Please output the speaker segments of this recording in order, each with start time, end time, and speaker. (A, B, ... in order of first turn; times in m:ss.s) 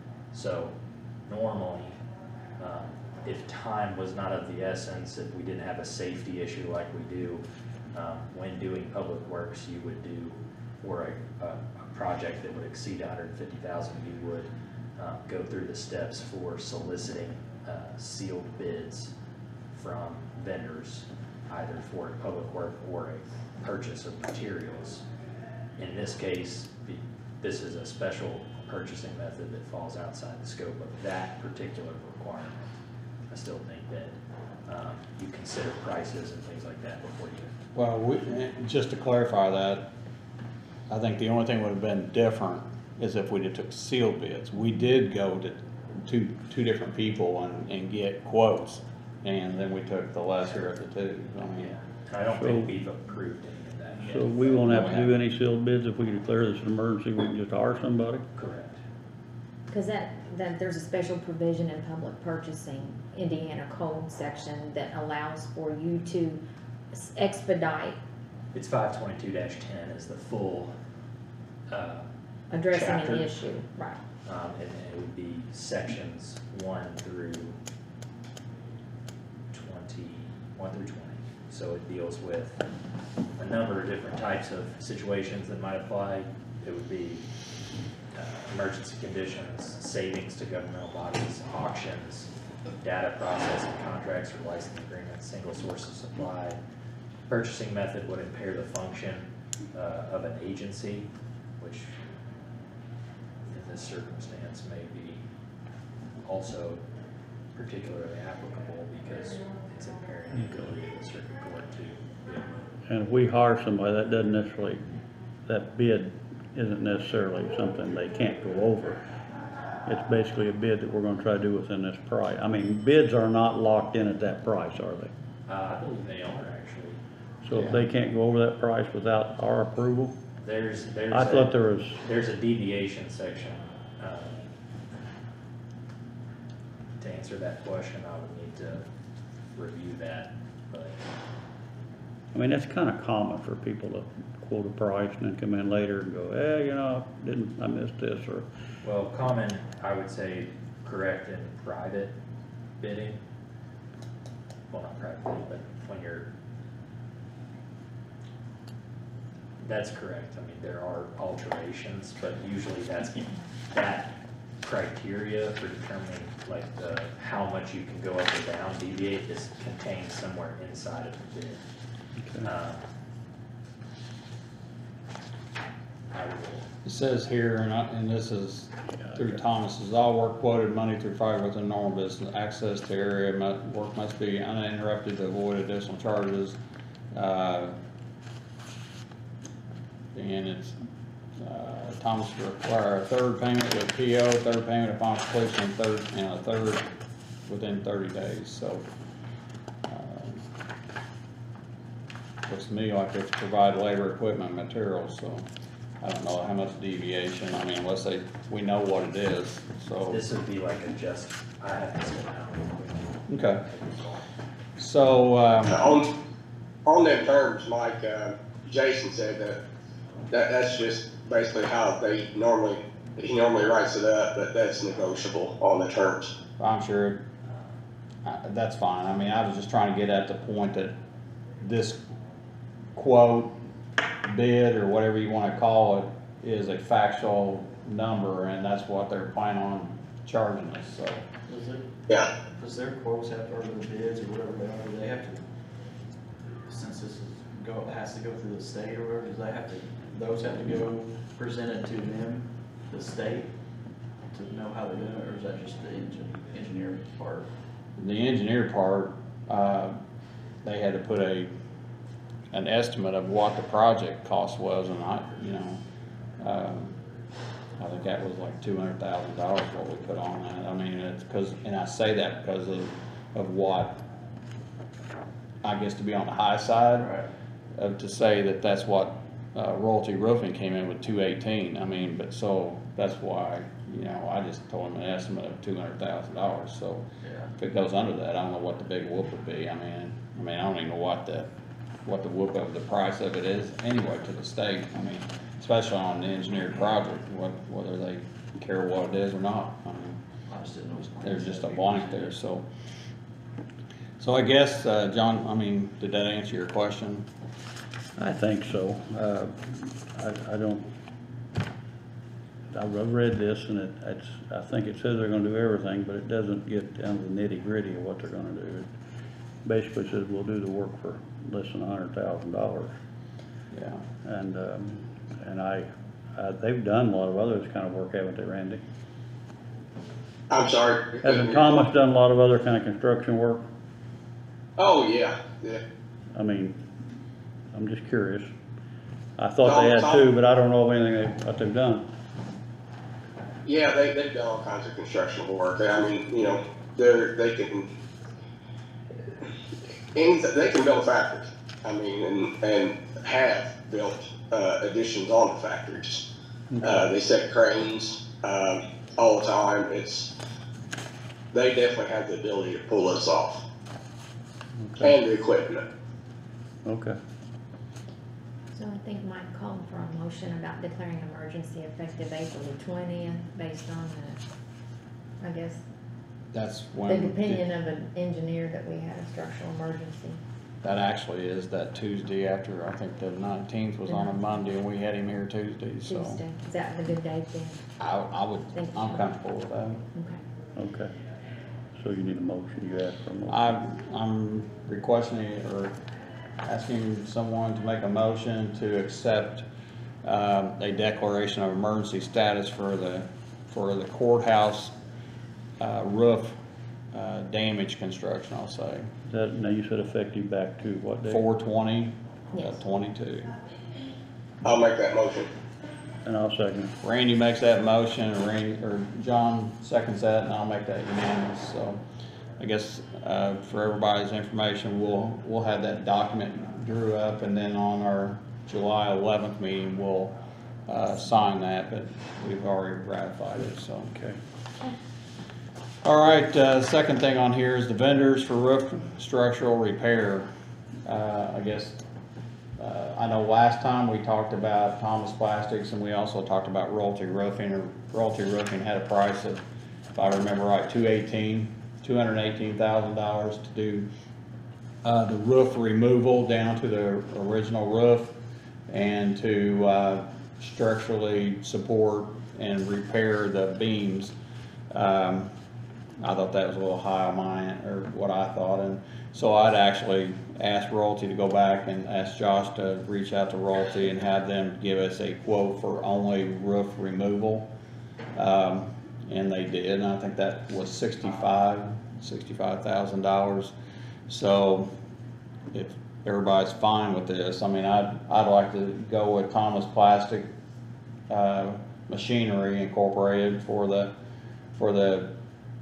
0:00.3-0:00.7 A
0:01.3-0:02.0 A
0:02.6-0:19.1 A
0:19.7-0:25.0 A
0:25.8-0:32.8 A
0:33.3-0:34.1 A
0:34.6-0:37.5 A
0:37.8-0:39.9 B
0:40.9-0:51.7 B
0:51.6-0:55.0 A
0:52.3-0:52.8 C
0:54.0-0:58.2 C
0:54.7-0:55.1 B
0:58.4-0:58.8 A
0:59.7-1:06.4 D
1:06.9-1:08.0 D
1:08.5-1:10.7 A
1:11.7-1:12.0 A
1:12.5-1:14.0 D
1:12.7-1:13.3 A
1:14.2-1:17.6 A
1:19.5-1:22.6 A
1:23.4-1:27.2 A
1:28.1-1:32.3 A
1:32.8-1:36.6 A
1:37.3-1:41.1 A
1:41.6-1:41.9 A
1:43.5-1:45.2 A
1:46.2-1:46.8 A
1:47.5-1:52.5 A
1:52.9-1:54.8 C
1:55.4-1:59.0 C
1:59.9-2:05.1 C
2:05.5-2:07.0 A
2:07.4-2:10.2 C
2:10.4-2:14.4 A
2:11.1-2:12.0 C
2:17.0-2:18.9 A
2:19.5-2:21.0 A
2:22.3-2:28.5 C
2:28.8-2:32.1 A
2:32.8-2:33.2 A
2:34.7-2:36.3 A
2:39.6-2:51.6 A
2:52.2-2:52.5 C
2:52.4-2:52.9 A
2:56.1-2:56.7 A
2:56.8-3:06.6 B
3:07.1-3:07.8 B
3:10.1-3:10.8 B
3:11.4-3:16.9 B
3:17.4-3:18.9 B
3:19.9-3:20.4 B
3:22.5-3:25.4 B
3:26.0-3:30.2 B
3:30.0-3:34.2 A
3:33.3-3:33.6 B
3:34.8-3:35.8 B
3:35.7-3:36.1 E
3:36.9-3:39.6 E
3:40.3-3:46.3 E
3:46.6-3:47.2 B
3:48.2-3:50.9 B
3:51.6-3:52.0 B
3:52.9-3:53.6 B
3:54.2-4:01.2 B
4:01.5-4:01.9 F
4:02.5-4:05.4 F
4:06.6-4:13.5 F
4:14.3-4:17.5 F
4:18.0-4:20.0 B
4:20.6-4:21.5 B
4:22.5-4:25.8 B
4:26.4-4:27.0 B
4:27.8-4:34.0 B
4:35.6-4:37.1 B
4:37.0-4:37.3 F
4:37.8-4:47.1 B
4:47.2-4:47.5 F
4:47.6-4:51.5 B
4:52.0-5:00.2 B
5:00.5-5:02.3 F
5:01.2-5:02.6 B
5:04.2-5:07.3 B
5:08.2-5:10.9 C
5:12.7-5:18.9 C
5:19.6-5:22.9 C
5:23.7-5:24.0 B
5:24.2-5:28.8 C
5:30.5-5:31.8 E
5:31.2-5:33.6 C
5:34.8-5:35.8 E
5:36.4-5:36.8 C
5:37.7-5:38.5 C
5:39.4-5:42.0 C
5:39.6-5:40.3 E
5:43.6-5:47.9 E
5:50.1-5:56.2 E
5:56.7-5:57.0 C
5:56.8-6:00.3 E
6:01.5-6:03.6 E
6:04.8-6:05.2 C
6:05.0-6:05.8 E
6:06.8-6:07.2 C
6:08.7-6:14.4 D
6:15.4-6:15.8 D
6:16.5-6:17.6 B
6:17.0-6:20.4 D
6:20.8-6:26.4 B
6:24.1-6:24.4 D
6:26.0-6:27.8 D
6:28.0-6:30.0 B
6:28.7-6:29.3 D
6:30.1-6:30.4 D
6:30.8-6:31.1 C
6:32.0-6:33.8 C
6:33.5-6:36.0 B
6:36.6-6:39.7 B
6:40.2-6:45.0 B
6:45.8-6:46.6 B
6:47.1-6:49.1 B
6:49.2-6:51.4 C
6:51.3-6:53.5 B
6:52.5-6:52.8 D
6:54.6-6:55.5 E
6:56.2-6:56.9 C
6:57.0-7:02.0 B
7:02.6-7:10.4 B
7:10.9-7:14.1 B
7:14.1-7:14.4 C
7:16.0-7:20.5 B
7:21.0-7:22.0 B
7:22.8-7:29.6 B
7:30.1-7:34.1 B
7:35.0-7:38.4 B
7:38.9-7:44.3 B
7:44.9-7:45.5 B
7:46.2-7:57.7 B
7:58.4-8:03.7 B
8:04.3-8:04.9 B
8:05.7-8:10.5 B
8:11.3-8:14.1 B
8:14.8-8:15.4 B